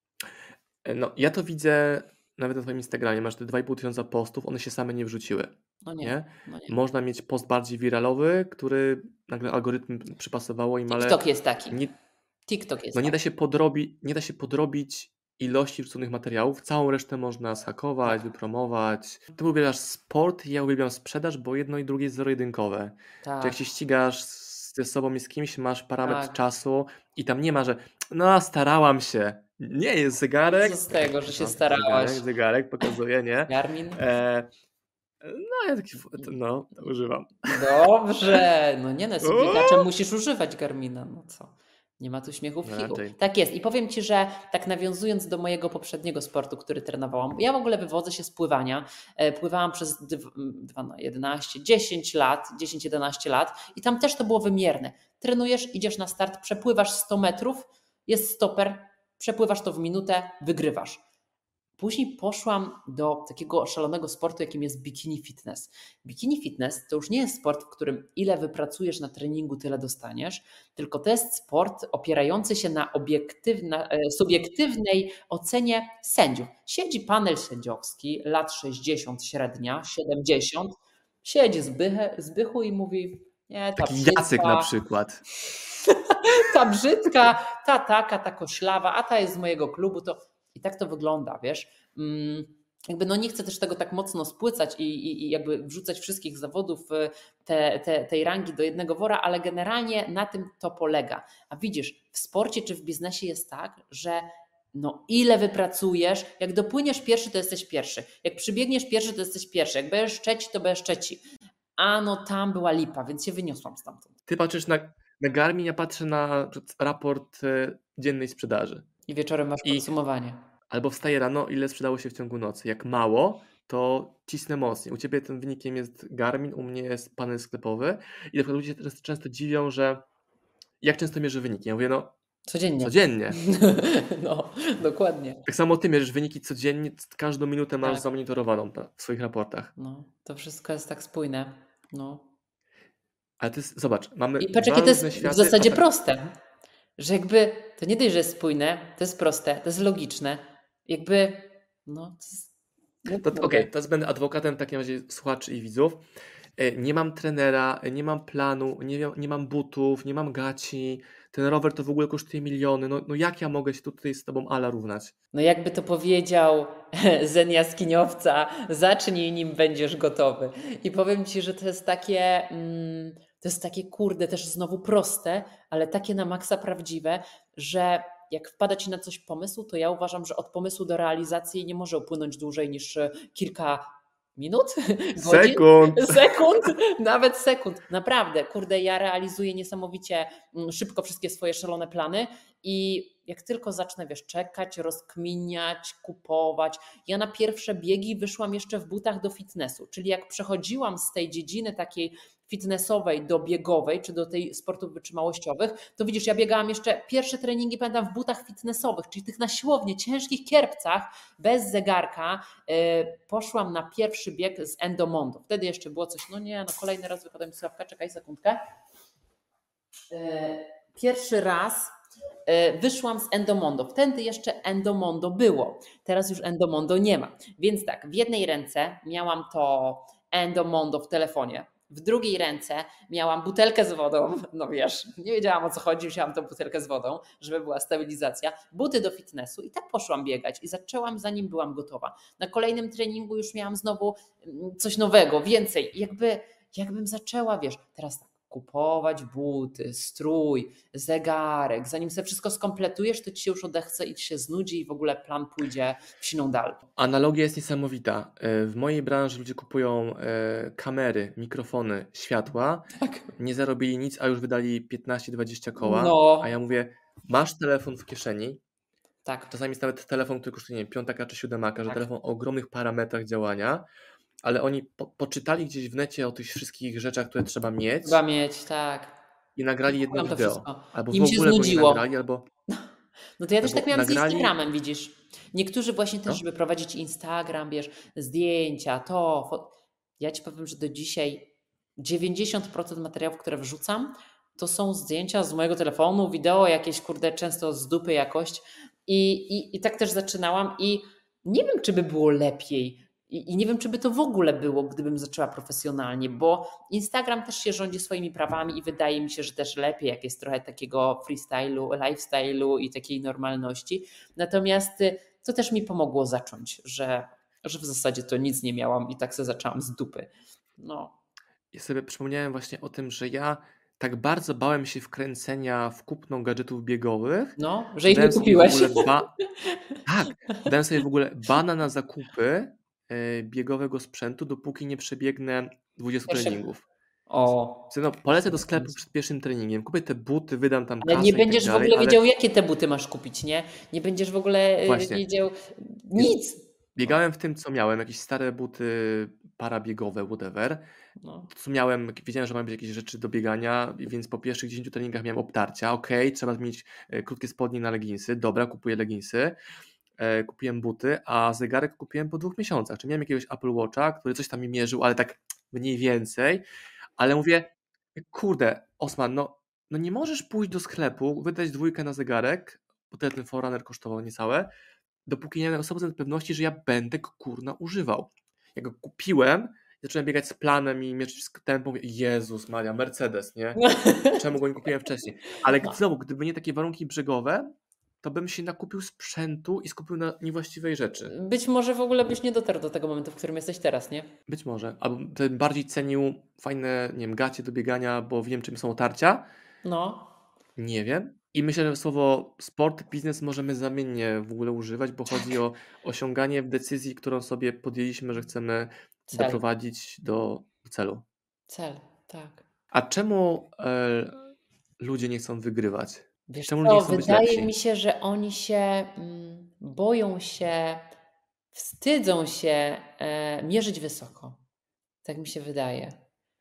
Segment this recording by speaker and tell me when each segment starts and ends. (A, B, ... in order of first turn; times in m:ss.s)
0:00.8-0:11.9 A
0:05.8-0:06.7 B
0:10.9-0:11.8 B
0:12.5-0:13.2 B
0:12.9-0:34.5 A
0:23.2-0:23.6 B
0:26.0-0:26.4 B
0:30.5-0:32.2 B
0:33.5-0:34.0 B
0:35.2-0:37.8 A
0:37.5-1:01.0 B
0:39.2-0:39.9 A
0:42.6-0:43.2 A
1:01.8-1:20.7 B
1:21.2-1:24.7 B
1:23.8-1:25.2 A
1:25.5-1:51.2 B
1:51.8-1:54.1 B
1:54.3-1:58.9 A
1:59.1-2:00.4 B
1:59.6-1:59.9 A
2:00.7-2:10.0 A
2:10.8-2:12.1 A
2:12.5-2:15.4 B
2:12.8-2:13.4 A
2:15.5-2:19.7 A
2:19.8-2:22.2 B
2:23.4-2:25.8 A
2:24.4-2:26.3 B
2:27.0-2:32.5 B
2:33.0-2:33.7 B
2:33.1-2:36.0 A
2:36.6-2:45.1 A
2:45.3-3:38.6 B
3:05.2-3:06.3 A
3:40.1-3:41.9 B
3:42.5-4:16.8 B
4:17.0-4:28.6 A
4:23.0-4:23.3 B
4:25.8-4:26.5 B
4:29.2-4:29.5 B
4:29.5-4:33.9 A
4:34.4-4:38.2 A
4:38.0-4:39.2 B
4:39.6-4:42.5 A
4:39.9-4:42.0 B
4:43.4-5:21.1 B
4:43.6-4:44.5 A
5:21.7-5:29.3 A
5:27.6-5:30.0 B
5:30.0-5:36.8 A
5:36.3-5:36.6 B
5:37.3-5:37.9 B
5:37.9-5:42.2 A
5:38.5-5:38.9 B
5:41.0-5:46.6 B
5:44.8-5:45.2 A
5:47.0-5:50.8 A
5:51.2-5:51.5 B
5:51.5-5:59.6 A
6:00.2-6:06.6 A
6:07.2-6:14.7 A
6:15.3-6:27.7 A
6:23.8-6:24.4 B
6:28.2-6:31.3 A
6:31.3-6:34.3 B
6:34.5-6:39.5 A
6:39.8-6:40.3 B
6:40.8-6:51.2 A
6:49.3-6:49.6 B
6:51.7-6:52.6 B
6:52.9-6:54.4 A
6:55.0-6:57.7 A
6:56.5-7:01.1 B
7:01.7-7:04.6 B
7:05.2-7:06.2 B